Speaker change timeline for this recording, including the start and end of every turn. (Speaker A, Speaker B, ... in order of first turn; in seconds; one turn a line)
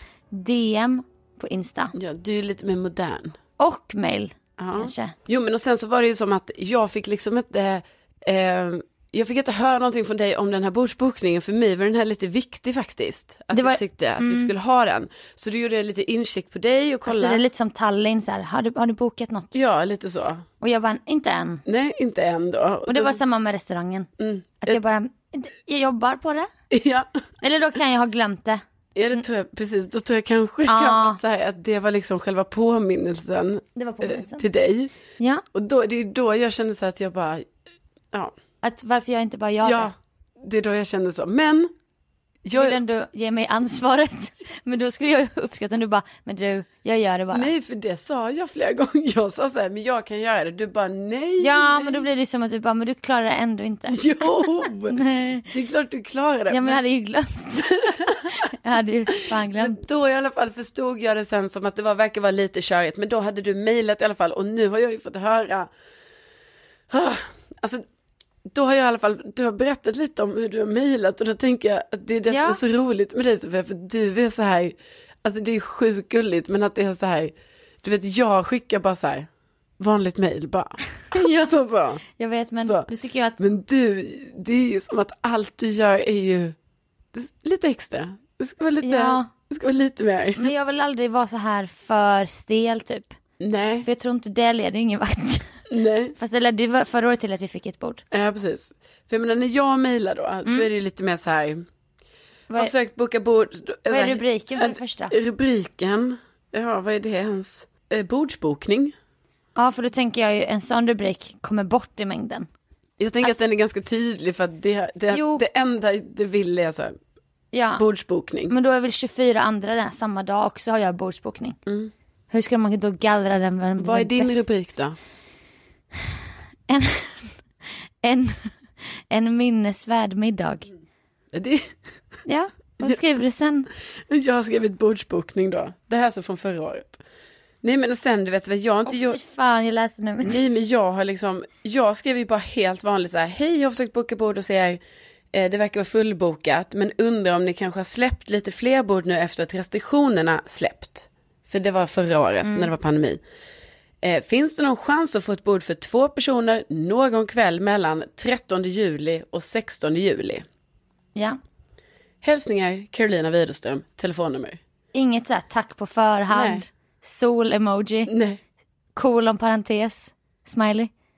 Speaker A: 0.3-1.9
Speaker B: 1.9-3.4
Speaker A: 3.6-5.1
Speaker B: 4.6-17.4
Speaker A: 13.5-14.5
Speaker A: 17.1-19.6
Speaker B: 19.5-20.4
Speaker A: 20.6-21.6
Speaker B: 21.6-23.2
Speaker A: 22.9-24.1
Speaker B: 24.2-24.8
Speaker A: 24.6-26.5
Speaker B: 26.7-27.1
Speaker A: 27.4-28.6
Speaker B: 28.9-34.9
Speaker A: 30.6-31.2
Speaker A: 33.8-34.4
Speaker A: 35.2-35.4
Speaker B: 35.5-37.5
Speaker A: 38.6-39.9
Speaker B: 39.6-41.7
Speaker B: 42.4-42.8
Speaker A: 42.5-47.5
Speaker B: 47.3-52.0
Speaker A: 51.4-55.5
Speaker B: 53.9-56.8
Speaker A: 56.5-59.8
Speaker B: 59.3-65.7
Speaker B: 66.9-67.8
Speaker B: 68.5-82.0
Speaker A: 72.3-72.6
Speaker A: 81.1-83.4
Speaker B: 82.6-86.5
Speaker B: 87.1-90.5
Speaker A: 88.8-89.3
Speaker A: 90.4-93.2
Speaker B: 93.4-93.9
Speaker A: 93.8-95.6
Speaker B: 95.7-96.1
Speaker A: 96.2-98.0
Speaker B: 98.1-101.7
Speaker B: 102.5-108.9
Speaker A: 103.9-105.1
Speaker A: 109.5-112.5
Speaker B: 113.0-116.9
Speaker A: 115.1-115.4
Speaker A: 117.5-117.8
Speaker B: 117.8-118.5
Speaker A: 118.5-121.6
Speaker B: 121.7-121.9
Speaker A: 122.3-124.4
Speaker B: 123.8-125.0
Speaker A: 126.7-127.4
Speaker A: 128.0-128.6
Speaker A: 129.1-130.7
Speaker B: 131.3-131.8
Speaker A: 132.2-133.7
Speaker B: 134.1-137.0
Speaker B: 137.6-139.2
Speaker A: 138.9-140.4
Speaker B: 140.2-144.8
Speaker B: 145.3-153.2
Speaker A: 152.4-152.7
Speaker B: 154.0-160.4
Speaker B: 162.2-164.6
Speaker A: 164.9-168.1
Speaker B: 166.3-166.6
Speaker B: 168.1-168.4
Speaker A: 168.9-170.9